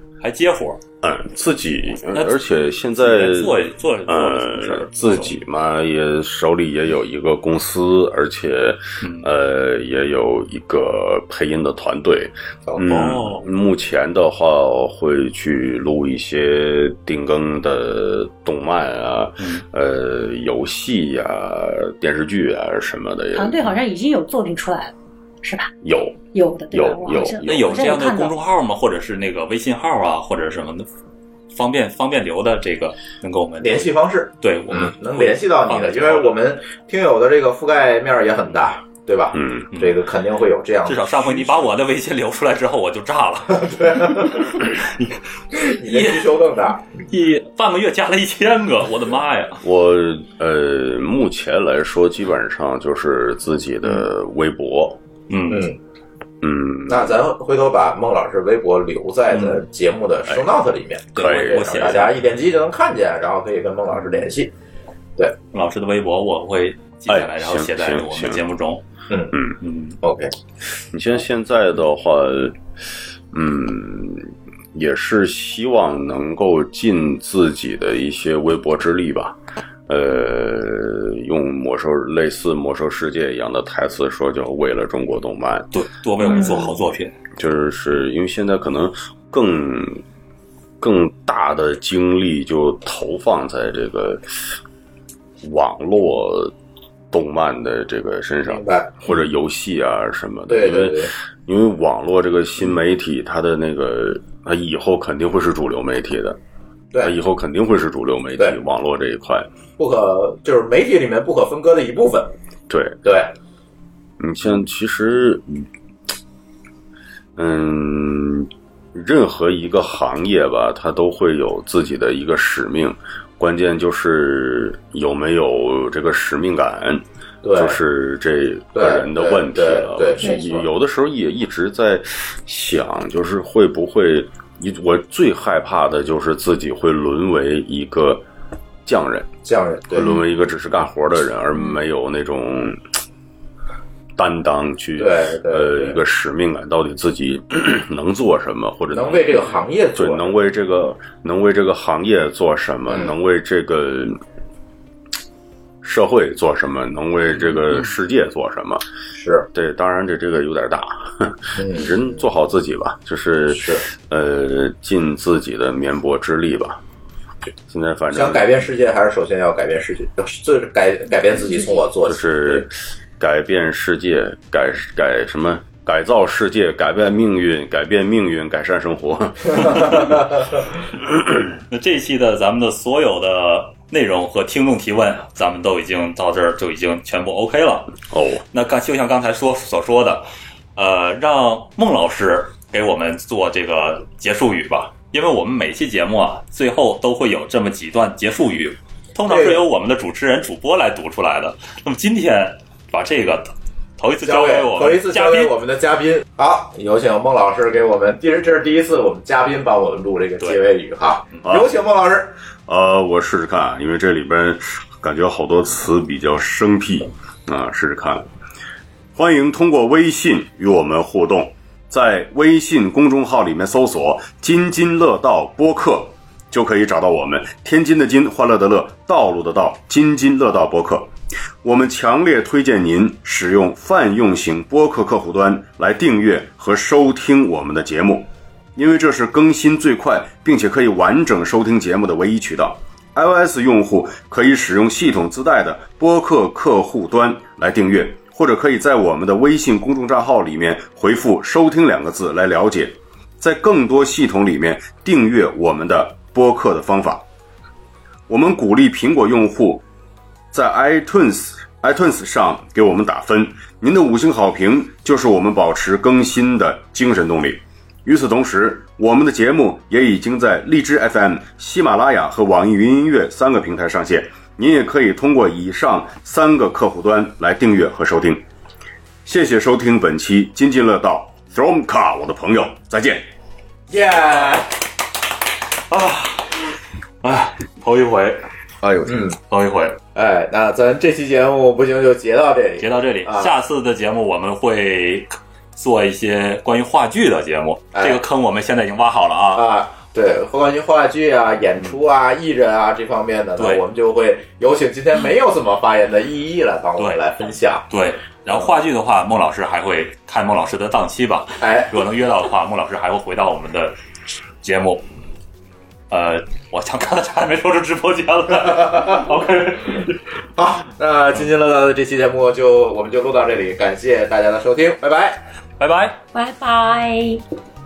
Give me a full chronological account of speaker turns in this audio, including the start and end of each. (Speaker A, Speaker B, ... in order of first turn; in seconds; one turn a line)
Speaker A: 0.2-0.8
Speaker B: 1.0-23.6
Speaker A: 2.1-2.4
Speaker A: 3.0-5.3
Speaker A: 9.0-9.3
Speaker A: 12.8-13.4
Speaker A: 19.4-19.6
Speaker C: 23.3-25.7
Speaker B: 25.8-28.0
Speaker C: 26.3-28.3
Speaker A: 27.4-30.9
Speaker A: 31.5-36.4
Speaker D: 33.6-41.7
Speaker B: 39.3-39.7
Speaker A: 39.7-40.0
Speaker A: 40.8-46.2
Speaker D: 43.6-44.5
Speaker D: 45.5-46.8
Speaker A: 47.1-49.6
Speaker B: 49.6-55.0
Speaker A: 55.3-55.7
Speaker D: 55.5-55.8
Speaker B: 56.4-57.2
Speaker D: 56.9-64.5
Speaker A: 61.1-62.2
Speaker B: 61.1-62.1
Speaker A: 65.5-68.8
Speaker B: 67.1-68.4
Speaker D: 69.1-69.4
Speaker A: 69.6-70.0
Speaker D: 70.0-70.3
Speaker B: 70.9-72.6
Speaker B: 73.3-79.4
Speaker B: 79.9-85.7
Speaker A: 85.7-87.1
Speaker C: 86.3-86.7
Speaker B: 87.3-90.0
Speaker B: 90.8-94.6
Speaker B: 95.4-96.5
Speaker B: 97.1-106.4
Speaker D: 98.5-99.0
Speaker D: 100.5-101.1
Speaker B: 107.0-109.5
Speaker D: 109.8-112.3
Speaker B: 112.7-113.0
Speaker D: 113.0-113.3
Speaker B: 114.2-115.7
Speaker B: 117.3-138.2
Speaker D: 127.4-127.8
Speaker D: 128.7-130.7
Speaker B: 138.8-139.3
Speaker D: 139.4-140.1
Speaker B: 139.9-142.8
Speaker B: 144.2-154.2
Speaker D: 145.0-146.0
Speaker D: 148.9-150.3
Speaker B: 155.8-158.8
Speaker D: 159.1-159.5
Speaker B: 159.5-166.8
Speaker D: 161.6-161.9
Speaker D: 163.5-163.8
Speaker B: 167.7-168.6
Speaker D: 168.1-172.6
Speaker B: 172.0-180.3
Speaker A: 181.7-187.9
Speaker B: 188.1-188.4
Speaker A: 188.5-205.5
Speaker D: 199.2-199.6
Speaker D: 204.2-212.3
Speaker B: 212.7-218.3
Speaker B: 219.1-231.1
Speaker B: 231.6-257.2
Speaker B: 258.3-259.8
Speaker B: 260.5-278.4
Speaker B: 279.2-283.2
Speaker D: 283.9-284.7
Speaker A: 285.9-286.6
Speaker A: 287.2-288.5
Speaker B: 288.8-289.3
Speaker D: 289.1-289.3
Speaker A: 289.4-290.0
Speaker D: 290.1-293.5
Speaker A: 292.8-299.7
Speaker D: 297.9-298.2
Speaker D: 299.5-307.9
Speaker A: 303.6-303.8
Speaker A: 307.0-307.2
Speaker A: 307.9-313.9
Speaker D: 311.6-311.9
Speaker A: 314.6-315.0
Speaker A: 316.1-320.2
Speaker D: 320.6-325.4
Speaker A: 325.8-326.2
Speaker C: 326.3-327.4